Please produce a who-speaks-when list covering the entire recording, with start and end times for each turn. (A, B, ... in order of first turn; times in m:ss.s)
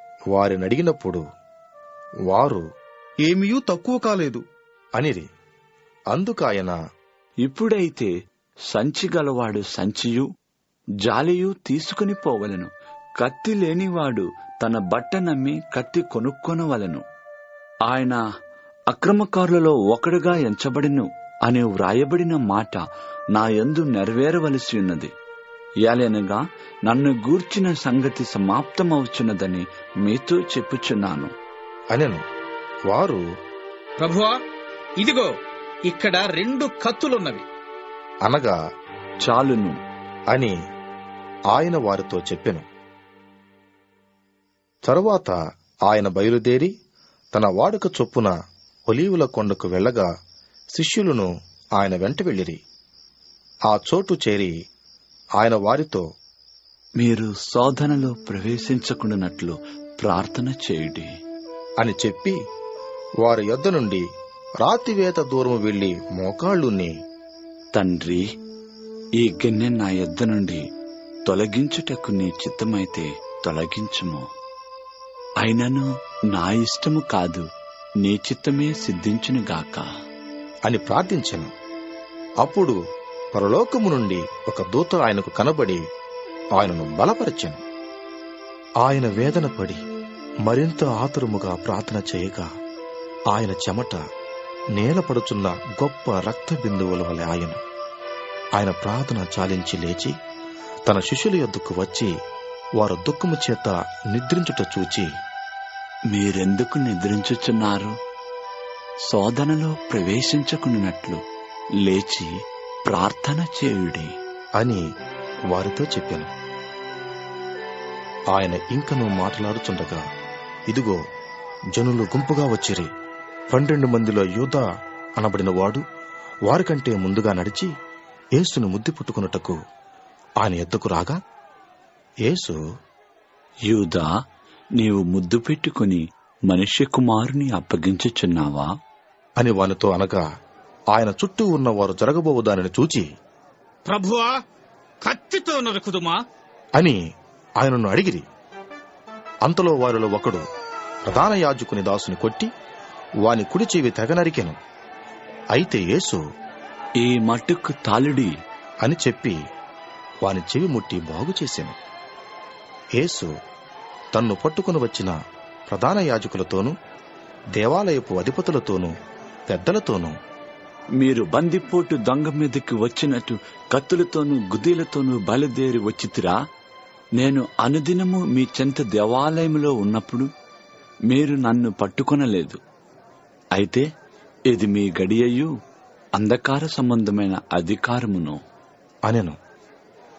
0:00.4-0:01.2 A
0:02.3-0:02.6 A
0:03.2-0:04.4 B
0:05.0-0:05.2 A
0:06.1-0:06.8 A
0:07.5-0:08.1 C
0:08.7-0:10.3 C
0:11.0-0:17.0 C
0:17.9-0:18.2 C
0:18.9-0:22.8 C
0:23.4-0:25.1 C
0:25.9-0:31.3 C
0:31.9-0:32.2 A
0:32.9-0:33.2 A
0:34.0-0:34.4 B
0:35.0-0:35.3 B
0:35.9-0:37.5 B
0:38.3-0:38.6 A
0:39.2-0:39.8 C
0:41.5-0:42.6 A
0:44.9-0:45.3 A
0:45.9-0:46.7 A
0:47.3-0:48.3 A
0:48.9-0:50.1 A
0:50.8-0:51.3 A
0:51.8-0:52.6 A
0:53.7-0:54.5 A
0:55.4-0:56.0 A
0:57.0-1:01.1 C
1:01.8-1:02.4 A
1:03.2-1:04.0 A
1:04.6-1:06.9 A
1:07.8-1:08.2 C
1:09.2-1:10.6 C
1:11.3-1:14.2 C
1:15.4-1:17.4 C
1:18.0-1:19.9 C
1:20.7-1:21.5 A
1:22.4-1:22.8 A
1:23.4-1:25.8 A
1:26.6-1:27.6 A
1:28.8-1:29.8 A
1:30.5-1:32.5 A
1:33.3-1:34.0 A
1:34.8-1:37.6 A
1:38.6-1:40.1 A
1:40.9-1:42.1 A
1:42.8-1:45.1 A
1:46.1-1:48.0 C
1:49.1-1:51.2 C
1:51.8-1:52.3 C
1:52.9-1:54.1 C
1:55.5-1:56.3 A
1:58.3-2:00.0 A
2:00.7-2:01.0 A
2:01.8-2:02.9 A
2:03.5-2:04.6 A
2:05.2-2:05.8 A
2:06.5-2:07.7 A
2:08.4-2:09.6 A
2:10.4-2:11.2 A
2:12.3-2:12.6 A
2:13.7-2:14.1 C
2:14.8-2:18.7 C
2:19.4-2:20.2 A
2:20.9-2:23.1 A
2:23.9-2:24.4 B
2:25.0-2:26.2 B
2:27.6-2:28.2 A
2:29.5-2:30.4 A
2:31.1-2:32.5 A
2:33.2-2:34.6 A
2:35.6-2:36.2 A
2:37.0-2:38.3 C
2:38.8-2:39.4 A
2:40.2-2:41.7 A
2:43.0-2:43.3 A
2:44.1-2:45.1 A
2:45.7-2:46.7 A
2:47.6-2:48.9 A
2:49.5-2:50.1 A
2:51.0-2:56.4 C
2:57.2-3:00.3 C
3:01.1-3:02.6 C
3:03.6-3:03.8 C
3:04.5-3:05.5 C
3:06.2-3:08.4 C
3:09.1-3:09.4 A